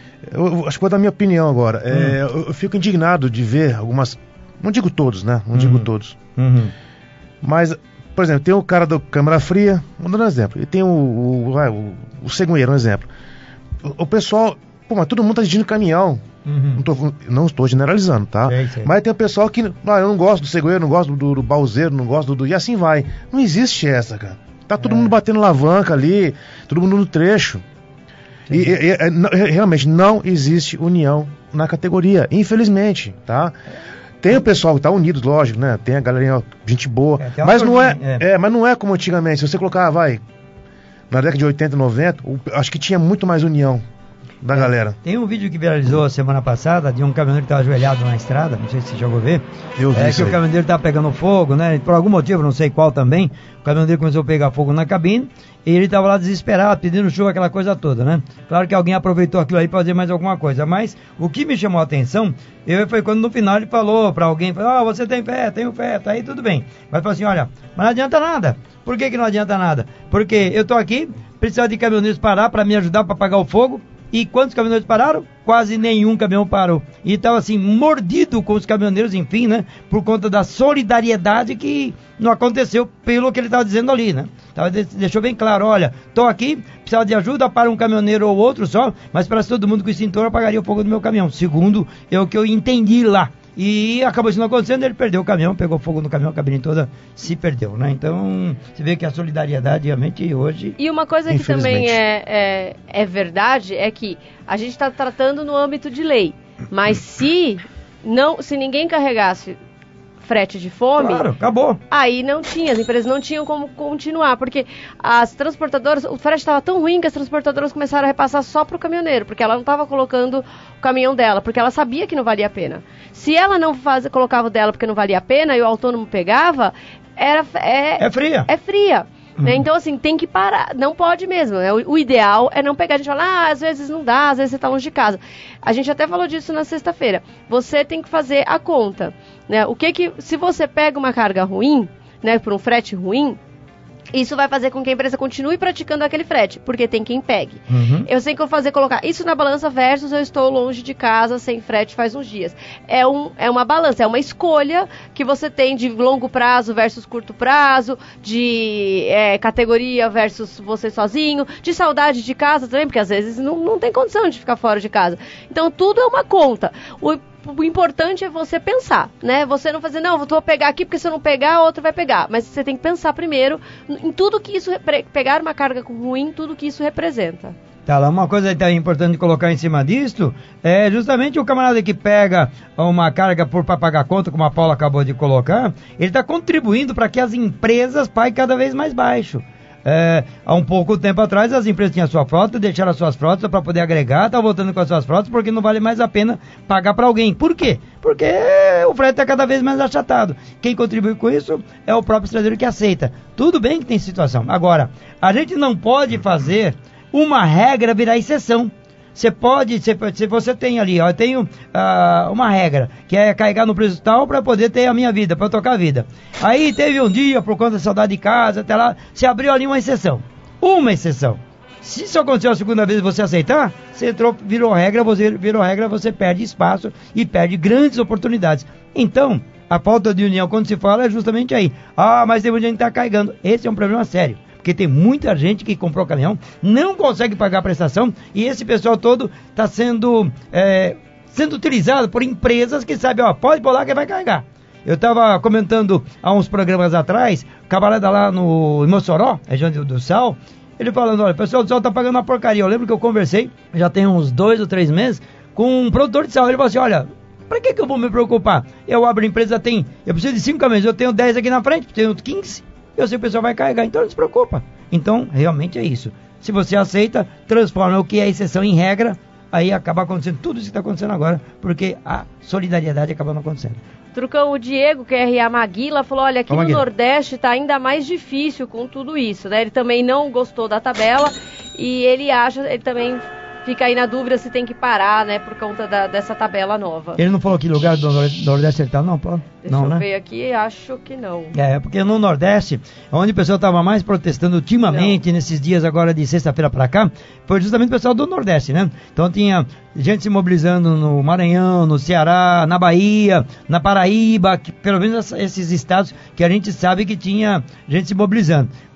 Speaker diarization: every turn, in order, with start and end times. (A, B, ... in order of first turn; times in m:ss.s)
0:00.3-0:06.1 A
0:01.9-0:02.2 B
0:05.5-0:06.7 B
0:07.4-0:13.1 A
0:13.8-0:16.2 A
0:16.4-0:16.8 B
0:16.7-0:27.6 A
0:18.4-0:18.9 B
0:24.8-0:25.1 B
0:28.5-0:28.8 B
0:28.5-0:33.5 A
0:34.2-0:40.2 A
0:37.2-0:38.2 B
0:41.1-0:43.8 A
0:44.4-0:45.0 A
0:44.5-1:40.8 B
0:49.8-0:50.4 A
1:40.8-1:49.6 C
1:41.3-1:42.0 A
1:50.2-1:51.3 C
1:51.0-1:51.8 B
1:51.9-2:23.4 C
2:08.0-2:08.5 B
2:09.4-2:09.6 B
2:24.1-2:57.5 C
2:27.7-2:28.1 B
2:57.8-4:33.8 B
4:34.1-4:47.2 C
4:36.5-4:36.8 B
4:47.2-4:50.0 B
4:49.6-4:51.5 C
4:51.5-5:08.7 B
4:54.9-4:55.2 C